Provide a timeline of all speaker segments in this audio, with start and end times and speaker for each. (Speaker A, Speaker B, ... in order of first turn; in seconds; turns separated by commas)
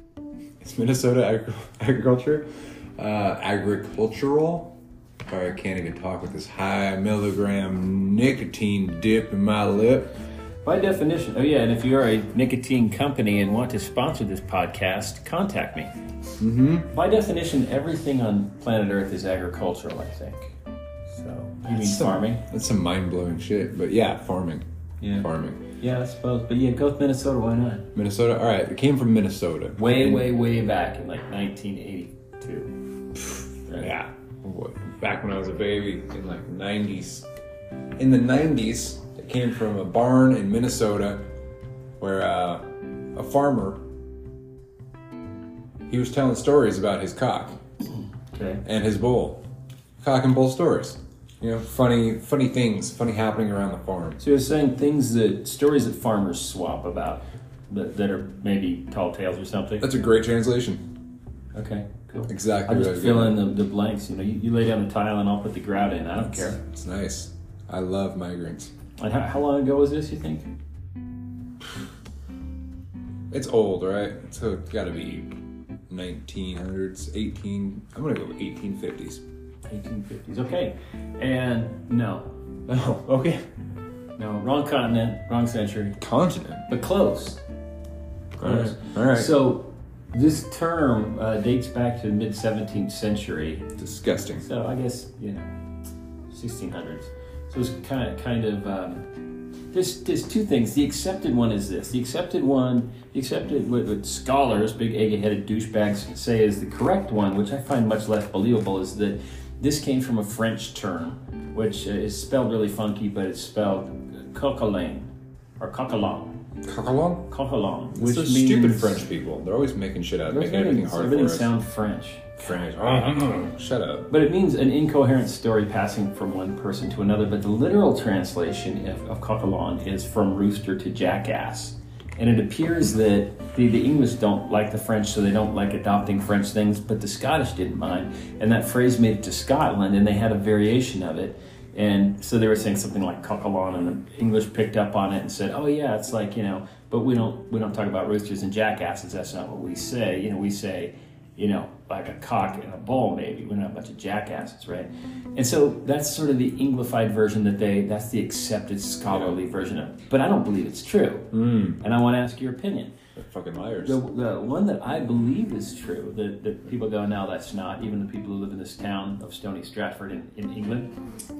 Speaker A: 0.6-4.8, Speaker A: 5.3-10.1, Speaker B: 10.6-15.9, Speaker A: 16.4-16.9, Speaker B: 16.9-20.6, Speaker B: 21.1-22.4, Speaker A: 21.7-24.6, Speaker B: 25.0-25.3, Speaker A: 25.2-25.6, Speaker B: 25.8-27.9, Speaker A: 27.9-30.2, Speaker B: 29.8-32.7, Speaker B: 33.6-33.9, Speaker A: 33.8-37.3, Speaker A: 38.0-41.3, Speaker A: 42.0-43.8, Speaker A: 45.9-47.6, Speaker B: 48.3-48.6, Speaker A: 48.6-49.4, Speaker A: 50.0-54.2, Speaker B: 54.2-59.9, Speaker A: 59.8-60.8, Speaker B: 61.5-66.6, Speaker A: 62.3-63.4, Speaker A: 66.5-68.7, Speaker B: 69.0-70.5, Speaker A: 73.3-75.3, Speaker A: 75.9-79.2, Speaker B: 79.7-82.3, Speaker A: 82.7-83.4, Speaker B: 84.2-86.0, Speaker A: 86.0-86.7, Speaker B: 86.7-87.4, Speaker B: 88.4-93.7, Speaker A: 88.4-89.3, Speaker A: 93.8-94.5, Speaker B: 94.4-95.5, Speaker B: 96.3-99.1, Speaker B: 99.7-115.1, Speaker B: 115.6-116.4, Speaker A: 116.6-117.3, Speaker B: 117.3-119.0, Speaker A: 117.9-121.5, Speaker B: 120.3-122.4, Speaker A: 122.4-124.1, Speaker B: 124.1-162.9, Speaker A: 159.1-159.4, Speaker A: 161.3-161.8, Speaker A: 163.2-164.0, Speaker B: 163.8-170.9